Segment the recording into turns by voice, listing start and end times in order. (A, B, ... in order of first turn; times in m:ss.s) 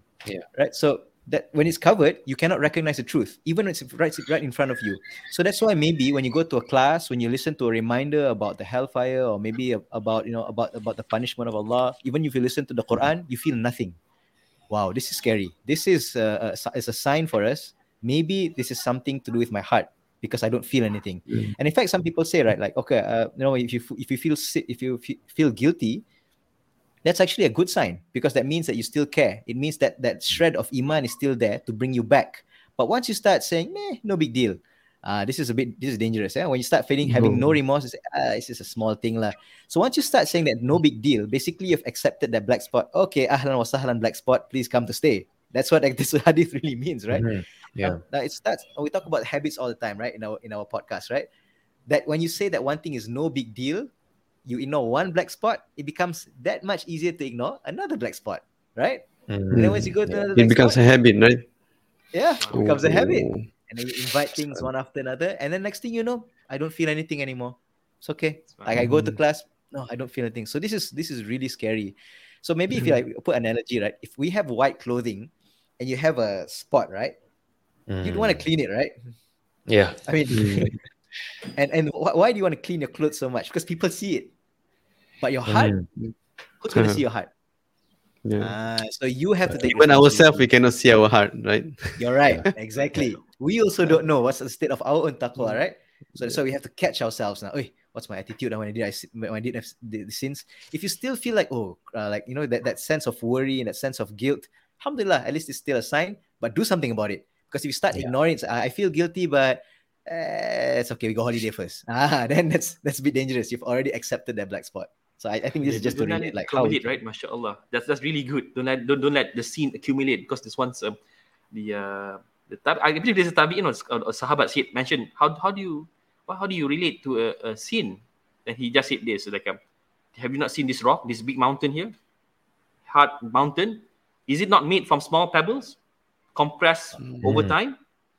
0:00.5-0:14.0 A
0:14.7-0:26.0 A
0:27.0-0:47.3 A
0:37.0-0:37.6 B
0:47.1-0:48.0 C
0:47.8-0:51.3 A
0:51.9-0:53.9 A
0:54.4-1:00.8 A
0:59.3-1:00.2 C
0:59.5-1:01.4 B
1:02.1-1:17.1 A
1:02.4-1:02.8 D
1:02.5-1:03.5 B
1:08.8-1:09.2 B
1:17.9-1:18.4 C
1:18.0-1:19.0 A
1:19.7-1:20.7 C
1:20.0-1:20.7 A
1:20.3-1:20.7 B
1:21.6-1:24.3 A
1:25.2-1:25.7 A
1:25.5-1:25.9 C
1:26.6-1:27.3 A
1:26.7-1:27.0 B
1:28.2-1:28.5 B
1:28.4-1:30.5 A
1:29.6-1:32.5 B
1:32.0-1:57.0 A
1:55.6-2:01.0 D
2:01.5-2:09.6 D
2:10.1-2:11.9 D
2:12.8-2:15.8 D
2:16.3-2:17.8 D
2:17.0-2:17.2 B
2:17.2-2:17.6 C